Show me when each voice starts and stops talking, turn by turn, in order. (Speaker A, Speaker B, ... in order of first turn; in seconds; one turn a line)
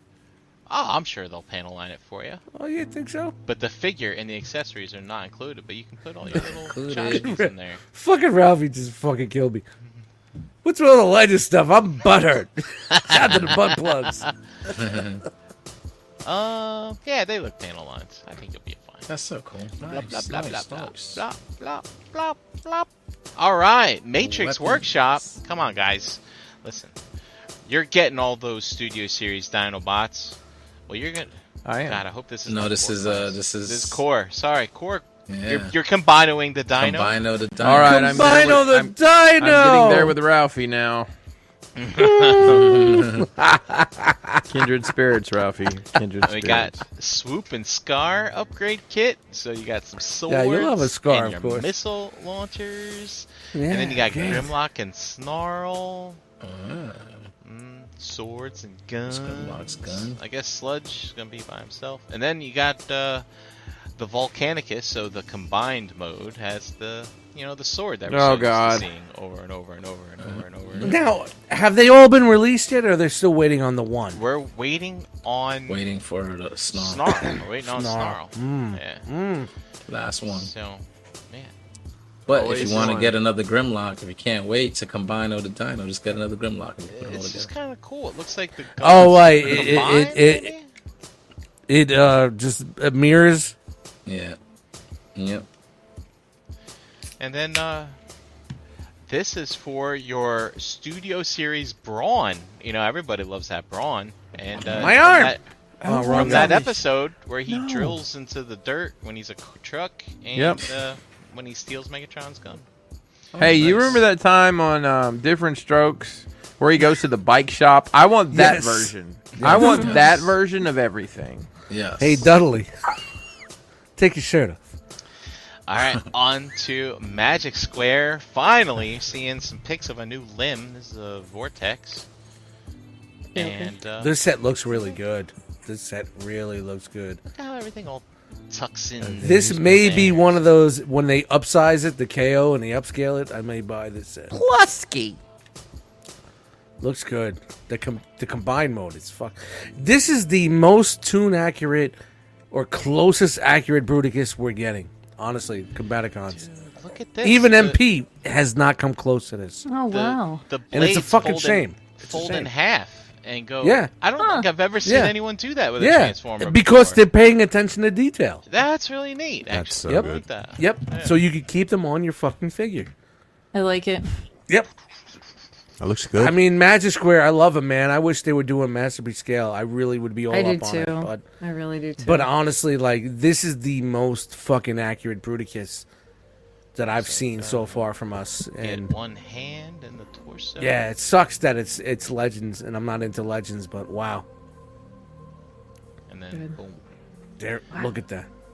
Speaker A: 0.7-2.4
Speaker B: 2.5-3.3
Speaker A: 3.5-7.8
Speaker C: 6.3-7.4
Speaker B: 7.2-9.6
Speaker B: 10.6-14.2
Speaker A: 12.9-14.3
Speaker C: 14.7-15.2
Speaker A: 16.2-19.1
Speaker C: 19.1-21.2
Speaker A: 19.8-26.9
Speaker C: 24.2-24.9
Speaker A: 27.6-30.4
Speaker A: 30.9-37.2
Speaker D: 31.6-32.0
Speaker C: 32.5-34.0
Speaker C: 35.3-35.7
Speaker C: 36.8-38.5
Speaker D: 37.6-41.1
Speaker B: 37.8-40.2
Speaker A: 41.8-43.0
Speaker B: 42.0-44.5
Speaker C: 42.4-43.3
Speaker D: 44.5-46.8
Speaker A: 46.2-56.2
Speaker B: 50.3-51.7
Speaker B: 53.5-54.5
Speaker C: 56.4-57.3
Speaker A: 57.4-63.2
Speaker C: 59.1-60.2
Speaker A: 64.0-71.0
Speaker D: 68.1-68.8
Speaker C: 70.2-71.0
Speaker B: 70.8-74.2
Speaker A: 74.1-75.8
Speaker C: 75.7-77.3
Speaker A: 76.7-79.0
Speaker B: 77.6-79.5
Speaker C: 79.9-80.5
Speaker A: 80.3-81.5
Speaker C: 82.3-87.5
Speaker D: 82.3-83.2
Speaker A: 82.5-83.0
Speaker A: 86.9-90.7
Speaker B: 88.8-90.5
Speaker C: 89.5-89.8
Speaker B: 91.7-93.5
Speaker C: 94.0-94.4
Speaker C: 95.1-95.5
Speaker A: 97.2-97.9
Speaker A: 99.1-105.4
Speaker C: 104.6-105.0
Speaker B: 104.6-106.7
Speaker D: 105.8-106.6
Speaker A: 106.0-112.6
Speaker D: 107.5-108.0
Speaker D: 110.3-110.6
Speaker C: 113.3-114.0
Speaker D: 113.4-121.5
Speaker B: 118.3-120.0
Speaker C: 119.4-120.0
Speaker C: 121.7-122.3
Speaker B: 122.0-122.7
Speaker B: 124.0-124.6
Speaker A: 125.7-132.1
Speaker A: 133.3-134.1
Speaker E: 133.3-133.7
Speaker B: 134.0-137.2
Speaker A: 137.3-140.4
Speaker F: 139.0-139.6
Speaker B: 139.2-144.3
Speaker D: 144.3-145.2
Speaker B: 146.8-152.0
Speaker B: 152.5-156.5
Speaker A: 156.3-157.8
Speaker B: 157.2-159.7
Speaker E: 159.7-160.4
Speaker A: 159.9-167.0
Speaker B: 160.7-162.5
Speaker B: 163.6-163.9
Speaker E: 164.2-164.5
Speaker B: 164.8-165.2
Speaker B: 165.8-168.4
Speaker A: 168.5-171.2
Speaker F: 169.5-170.2
Speaker B: 169.8-172.9
Speaker E: 173.5-174.1
Speaker F: 175.8-176.4
Speaker B: 176.2-181.2
Speaker E: 180.3-182.3
Speaker B: 182.0-185.8
Speaker B: 186.7-188.9
Speaker A: 186.8-187.8
Speaker A: 188.6-190.8
Speaker B: 190.6-194.2
Speaker A: 196.1-196.8
Speaker B: 197.4-198.3